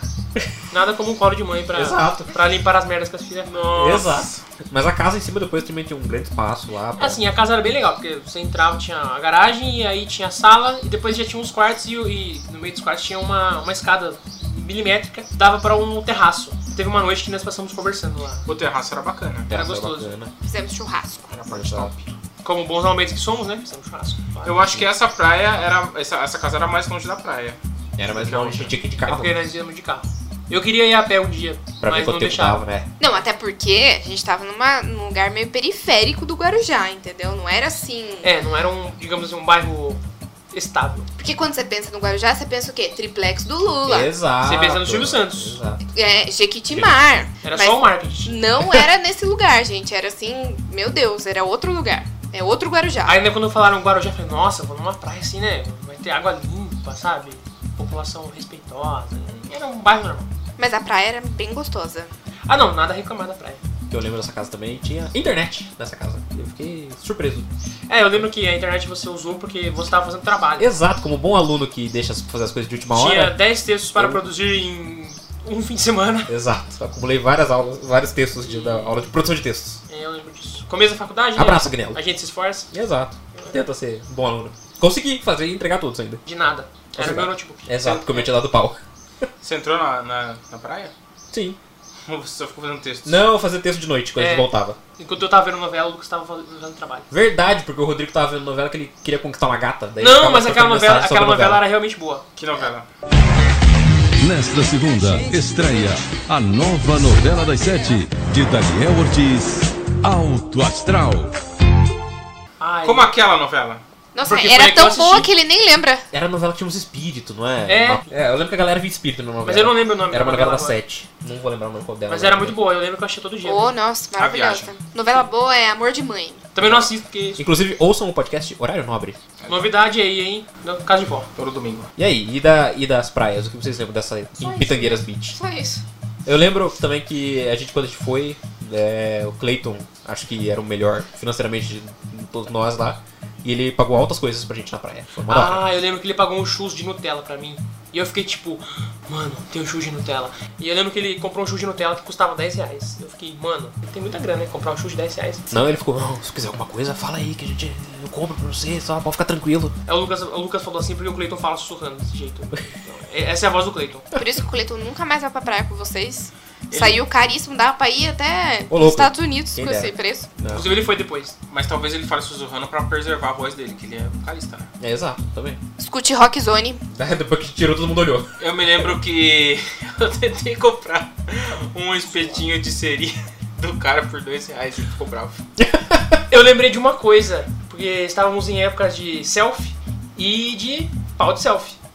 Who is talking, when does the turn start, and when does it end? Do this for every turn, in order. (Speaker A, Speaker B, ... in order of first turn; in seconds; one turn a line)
Speaker A: 0.7-3.8
Speaker B: 1.7-2.3
Speaker C: 3.4-4.4
Speaker B: 3.7-7.2
Speaker A: 7.0-18.4
Speaker C: 18.4-19.5
Speaker B: 19.5-20.3
Speaker A: 19.5-20.1
Speaker D: 20.4-21.3
Speaker C: 21.3-22.1
Speaker B: 21.5-21.9
Speaker A: 22.4-24.6
Speaker C: 24.4-27.6
Speaker B: 28.0-29.4
Speaker C: 28.1-28.6
Speaker A: 29.0-32.6
Speaker B: 31.8-32.9
Speaker D: 33.0-38.3
Speaker A: 38.2-40.0
Speaker A: 40.5-41.1
Speaker D: 41.2-44.1
Speaker B: 43.9-45.8
Speaker A: 44.4-45.6
Speaker D: 45.9-53.2
Speaker A: 47.4-48.4
Speaker A: 53.0-60.3
Speaker D: 60.6-62.1
Speaker A: 62.5-63.6
Speaker B: 63.9-67.5
Speaker A: 67.9-70.7
Speaker B: 70.6-73.3
Speaker A: 72.9-76.3
Speaker B: 74.0-74.2
Speaker B: 76.3-79.8
Speaker A: 78.4-79.1
Speaker A: 79.9-82.7
Speaker B: 81.3-82.0
Speaker B: 82.7-86.2
Speaker A: 83.3-83.6
Speaker A: 86.2-88.3
Speaker B: 87.0-89.2
Speaker C: 89.4-90.9
Speaker B: 91.3-91.6
Speaker C: 92.1-93.2
Speaker B: 93.0-94.8
Speaker A: 94.2-97.1
Speaker B: 97.1-101.6
Speaker A: 100.0-102.2
Speaker C: 102.4-102.9
Speaker E: 104.2-111.4
Speaker A: 112.6-113.1
Speaker C: 112.8-113.8
Speaker D: 114.1-116.0
Speaker A: 114.2-115.3
Speaker B: 116.1-122.5
Speaker A: 117.7-118.1
Speaker A: 119.4-120.8
Speaker A: 122.1-123.8
Speaker D: 123.4-126.4
Speaker C: 124.2-124.7
Speaker A: 126.5-127.4
Speaker B: 127.4-129.2
Speaker C: 129.4-129.7
Speaker A: 129.5-131.3
Speaker C: 131.4-131.9
Speaker B: 132.0-135.4
Speaker D: 134.4-135.8
Speaker B: 136.2-145.7
Speaker A: 145.3-155.5
Speaker B: 155.5-159.7
Speaker A: 159.8-164.1
Speaker D: 164.2-170.3
Speaker C: 166.7-167.0
Speaker B: 168.7-170.8
Speaker A: 170.5-171.3
Speaker C: 171.5-174.7
Speaker B: 174.8-175.6
Speaker D: 175.8-176.8
Speaker B: 176.9-178.3
Speaker C: 178.4-185.4
Speaker B: 185.6-186.2
Speaker A: 186.3-191.8